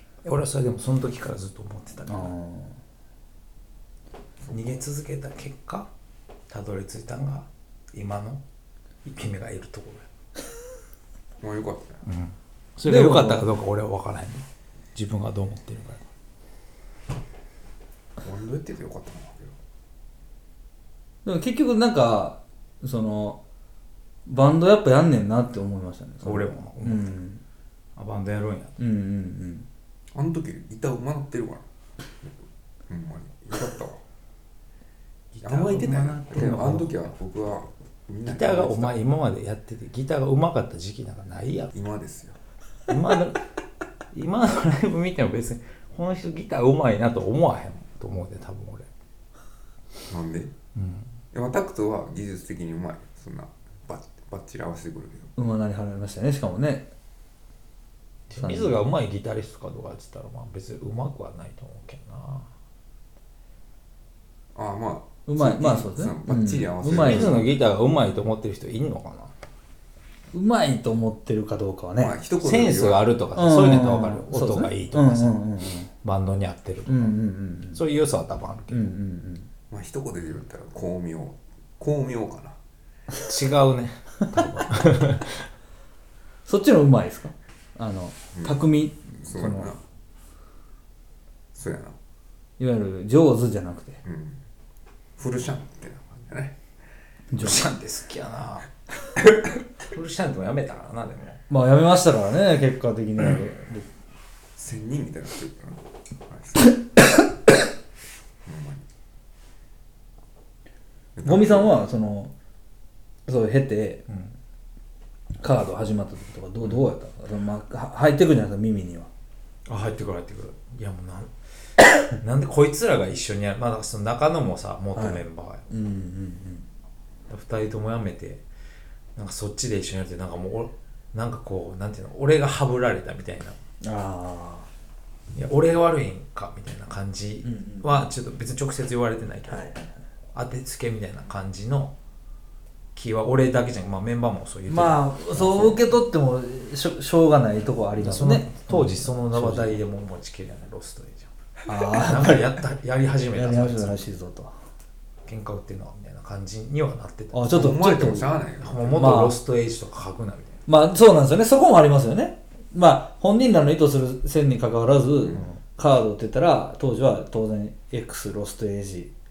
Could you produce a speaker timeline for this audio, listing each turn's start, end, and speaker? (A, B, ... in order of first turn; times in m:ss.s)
0:00.2-0:02.3 A
0:02.1-0:02.8 B
0:04.4-0:04.8 C
0:04.5-0:05.9 A
0:06.5-0:08.4 A
0:09.0-0:10.1 A
0:11.4-0:12.0 C
0:12.0-0:16.0 A
0:12.8-0:13.5 B
0:18.2-0:19.6 C
0:21.2-0:23.4 B
0:24.2-0:27.4 B
0:26.2-0:27.2 A
0:28.0-0:28.8 A
0:28.8-0:29.7 B
0:30.1-0:31.6 C
0:32.9-0:34.0 C
0:35.3-0:36.9 A
0:35.4-0:39.0 C
0:38.2-0:41.7 A
0:41.7-0:42.4 C
0:42.9-0:43.4 A
0:44.1-0:48.8 A
0:50.1-0:50.5 C
0:50.7-0:51.1 A
0:51.3-0:55.3 C
0:55.4-0:56.9 B
0:58.3-1:02.5 A
0:58.3-0:58.8 B
1:04.5-1:07.6 C
1:05.2-1:07.4 B
1:06.8-1:09.3 A
1:10.3-1:12.1 B
1:12.0-1:13.1 C
1:12.4-1:15.4 A
1:13.4-1:15.9 B
1:16.0-1:17.2 A
1:16.9-1:17.8 B
1:17.7-1:18.9 A
1:18.7-1:19.5 B
1:19.7-1:22.6 C
1:23.2-1:25.4 A
1:26.4-1:29.7 B
1:28.3-1:29.8 C
1:31.5-1:32.0 C
1:32.6-1:34.0 B
1:34.0-1:34.4 C
1:35.2-1:36.6 C
1:37.3-1:37.7 B
1:37.4-1:38.7 A
1:39.8-1:41.4 A
1:41.5-1:43.9 B
1:44.6-1:46.8 C
1:48.4-1:48.8 C
1:51.2-1:51.7 C
1:51.2-1:52.3 B
1:53.3-1:54.0 B
1:54.1-1:54.3 A
1:55.4-1:59.1 B
1:59.6-2:01.3 A
2:02.0-2:05.6 A
2:04.9-2:06.6 B
2:07.3-2:08.4 A
2:09.2-2:13.6 A
2:13.8-2:14.7 B
2:15.3-2:19.7 A
2:17.4-2:18.1 B
2:19.5-2:19.9 B
2:20.3-2:21.9 A
2:22.9-2:25.8 A
2:24.7-2:29.8 B
2:28.0-2:34.0 A
2:31.7-2:32.6 B
2:33.3-2:34.5 B
2:35.2-2:40.6 A
2:37.3-2:38.3 B
2:37.5-2:39.2 C
2:39.0-2:39.4 B
2:40.7-2:49.1 B
2:45.2-2:45.5 C